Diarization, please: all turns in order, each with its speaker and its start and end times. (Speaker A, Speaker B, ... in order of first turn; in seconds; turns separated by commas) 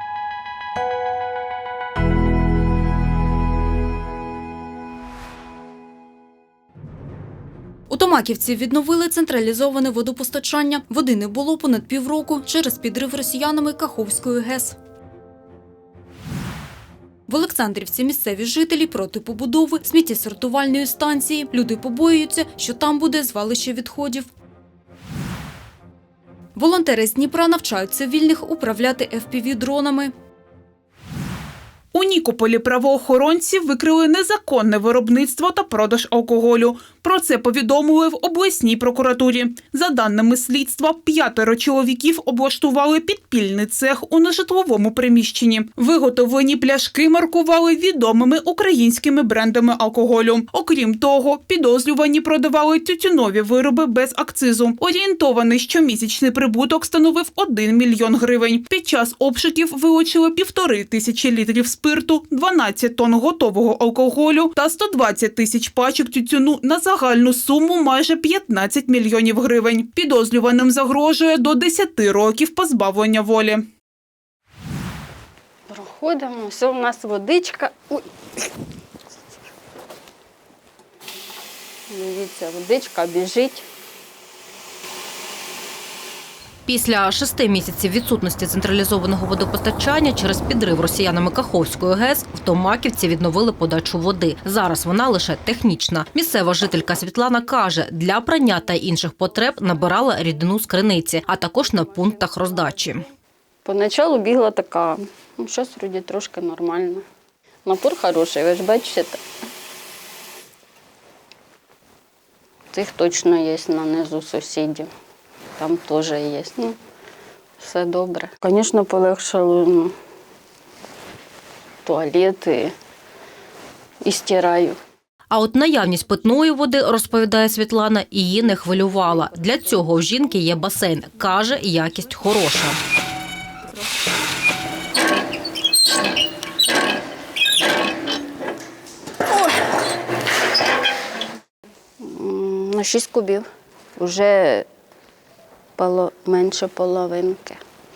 Speaker A: 7.9-14.8, Speaker A: 17.3-24.3, Speaker A: 26.6-30.1, Speaker B: 31.9-73.6, Speaker C: 75.7-78.1, Speaker C: 81.9-83.6, Speaker D: 86.7-103.0, Speaker C: 103.6-107.0, Speaker C: 107.6-109.2, Speaker C: 112.7-114.9, Speaker C: 115.6-116.8, Speaker C: 117.6-119.9, Speaker C: 121.8-122.7, Speaker C: 124.0-124.8, Speaker D: 125.3-132.8, Speaker C: 142.0-144.7, Speaker C: 145.8-147.6